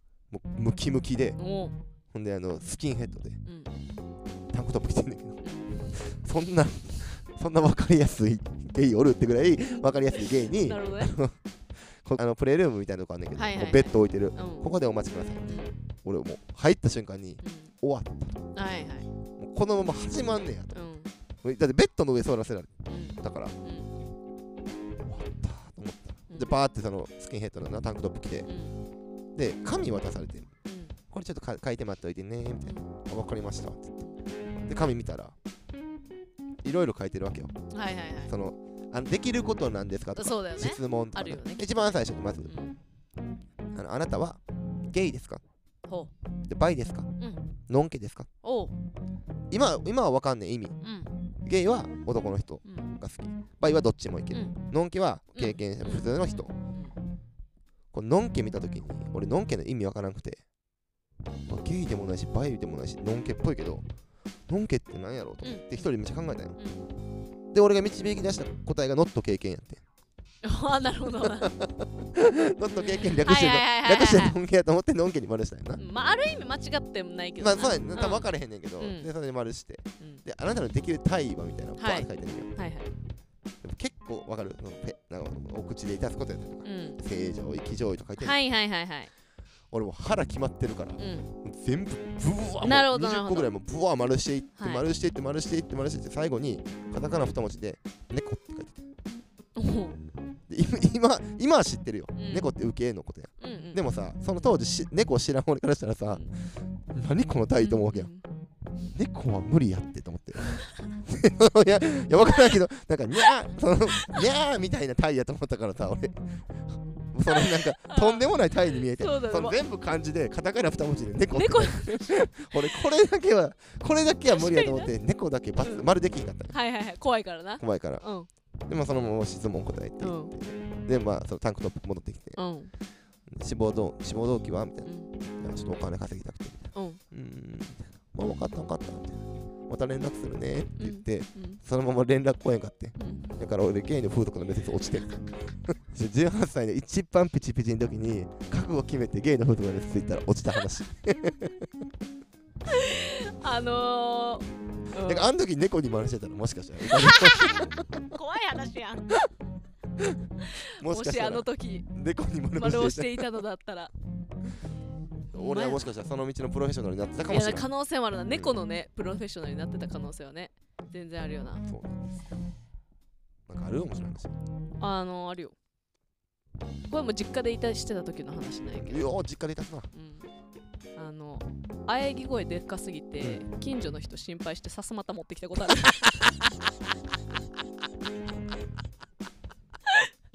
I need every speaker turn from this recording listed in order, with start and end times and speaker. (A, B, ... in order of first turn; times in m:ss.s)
0:00.3-0:01.4 A
0:01.4-0:01.8 B
0:02.1-0:03.4 A
0:03.4-0:03.7 B
0:04.5-0:05.4 A
0:05.4-0:05.9 B
0:05.9-0:18.5 A
0:10.2-0:11.1 B
0:13.3-0:14.7 B
0:15.5-0:15.8 B
0:17.4-0:17.7 B
0:18.6-0:19.1 B
0:19.4-0:20.8 A
0:20.7-0:21.1 B
0:21.4-0:23.6 A
0:22.9-0:24.0 B
0:25.0-0:28.5 A
0:26.3-0:26.6 B
0:28.4-0:28.8 B
0:29.4-0:30.5 A
0:30.6-0:31.0 B
0:31.1-0:34.0 A
0:34.6-0:35.4 A
0:36.6-0:37.5 A
0:37.7-0:38.3 B
0:38.3-0:42.5 A
0:40.2-0:42.8 B
0:43.7-0:45.4 A
0:45.9-0:46.1 B
0:46.4-0:47.1 A
0:47.7-0:48.3 A
0:48.4-0:48.7 B
0:49.5-0:50.8 A
0:50.8-0:51.1 B
0:51.4-0:56.5 A
0:52.6-0:52.9 B
0:55.4-0:57.0 B
0:57.9-1:00.4 A
1:01.5-1:03.9 A
1:04.5-1:06.6 A
1:05.4-1:05.9 B
1:06.6-1:06.9 B
1:07.5-1:09.8 A
1:10.4-1:11.5 B
1:11.2-1:15.8 A
1:12.9-1:14.4 B
1:15.8-1:18.3 B
1:17.4-1:22.5 A
1:18.8-1:19.1 B
1:21.8-1:22.9 B
1:23.6-1:28.4 A
1:26.6-1:27.0 B
1:28.2-1:29.1 B
1:29.7-1:38.9 A
1:31.0-1:31.3 B
1:32.6-1:33.5 B
1:34.6-1:34.8 B
1:39.6-1:40.0 B
1:40.5-1:48.1 A
1:42.1-1:42.5 B
1:43.4-1:43.8 B
1:47.6-1:48.2 B
1:48.9-2:06.6 A
1:57.3-1:59.6 B
2:01.3-2:02.8 B
2:04.3-2:04.9 B
2:05.6-2:05.9 B
2:06.5-2:08.3 B
2:07.6-2:08.0 A
2:08.7-2:12.4 A
2:10.0-2:10.3 B
2:12.4-2:12.7 B
2:13.3-2:25.2 A
2:14.8-2:15.1 B
2:16.7-2:17.0 B
2:20.8-2:21.6 B
2:23.0-2:23.3 B
2:25.7-2:31.7 A
2:32.7-2:35.3 B
2:35.0-2:38.0 A
2:36.8-2:39.1 B
2:40.4-2:41.9 B
2:40.8-2:43.4 A
2:42.5-2:43.9 B
2:45.3-2:45.9 B
2:45.3-2:47.7 A
2:47.3-2:51.6 B
2:48.3-2:48.6 A
2:51.6-2:52.0 A
2:53.5-2:54.3 A
2:54.8-2:55.6 B
2:56.9-2:59.0 B
2:58.8-2:59.9 A
2:59.9-3:00.3 B
3:01.0-3:06.5 B